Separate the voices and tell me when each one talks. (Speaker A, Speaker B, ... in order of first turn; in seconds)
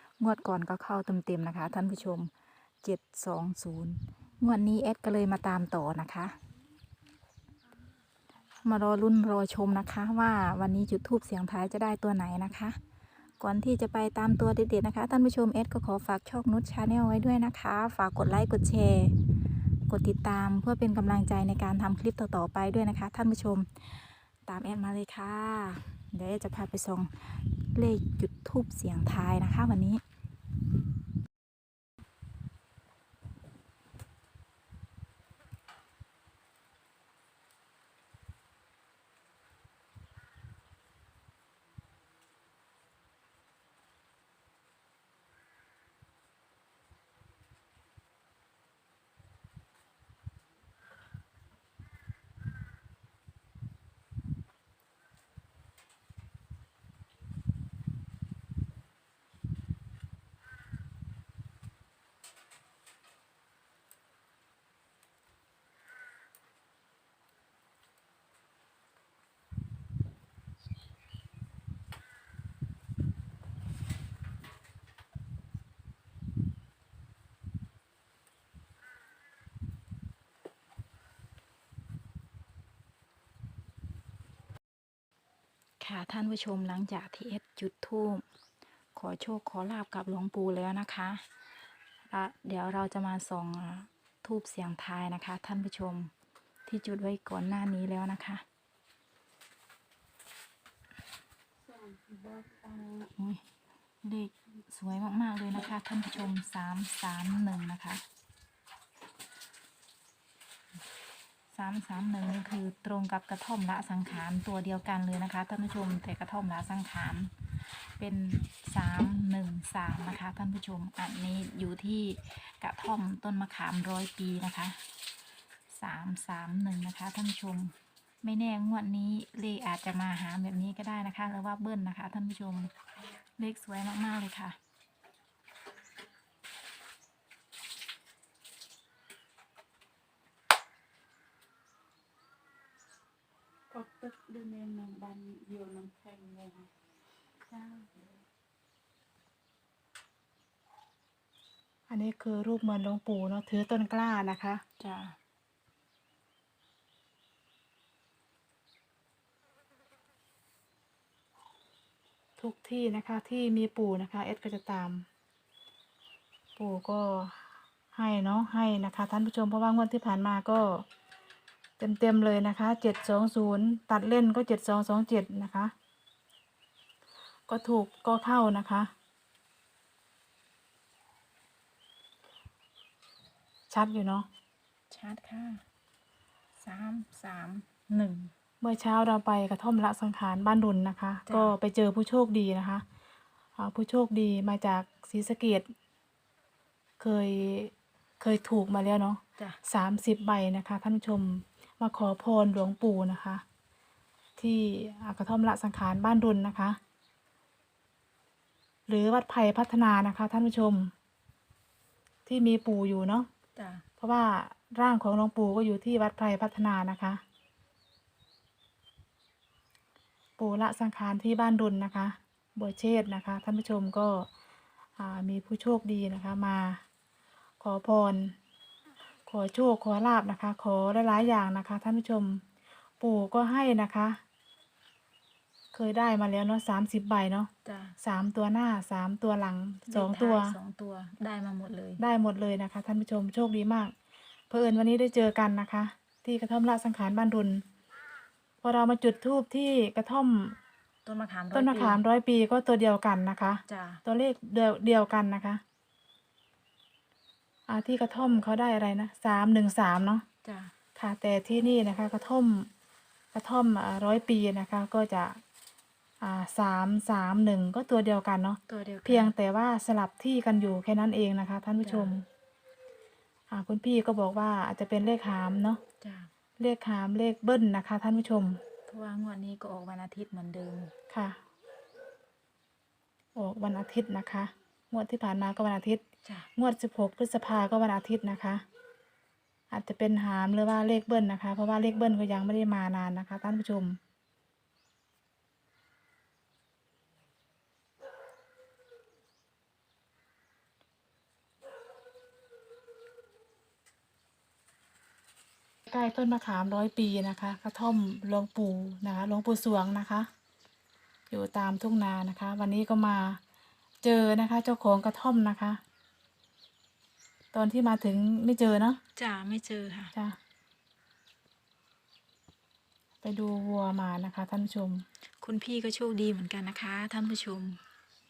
Speaker A: 0.2-2.3, 2.8-6.3, 8.6-12.8, 13.4-19.1, 19.9-30.0, 85.8-88.2, 89.0-91.2, 92.1-96.1, 96.7-98.4, 103.2-103.5, 104.0-108.0, 111.5-124.8, 125.7-132.7, 133.4-134.6, 154.8-155.2, 184.9-185.6, 186.6-188.3, 191.3-191.6, 213.6-213.8, 237.7-238.0, 239.9-242.0, 251.1-252.0, 253.7-254.0, 260.4-260.7, 268.7-269.3, 271.8-272.1, 276.0-276.3, 278.9-280.9, 319.2-320.1, 325.4-327.8
Speaker B: 101.7-103.1, 143.7-146.7, 147.5-147.9
Speaker C: 151.9-154.6, 162.4-165.1, 166.6-170.8, 171.8-175.7, 177.5-178.9, 183.7-184.3, 188.6-192.8, 193.6-195.7, 197.0-203.4, 204.4-206.8, 208.9-210.9, 212.3-213.3, 214.0-217.2, 220.4-224.3, 225.0-226.8, 227.6-228.4, 229.3-232.4, 233.0-234.2, 235.7-240.6, 242.0-243.9, 244.5-247.6, 248.6-250.6, 251.5-255.6, 257.7-260.2, 261.0-262.7, 263.3-265.4, 266.2-272.3, 273.5-275.8, 276.6-278.6, 281.1-281.4, 283.4-286.0, 286.6-288.6, 289.7-294.0, 305.9-310.3, 311.3-313.4, 314.0-315.8, 317.5-319.0, 323.2-325.1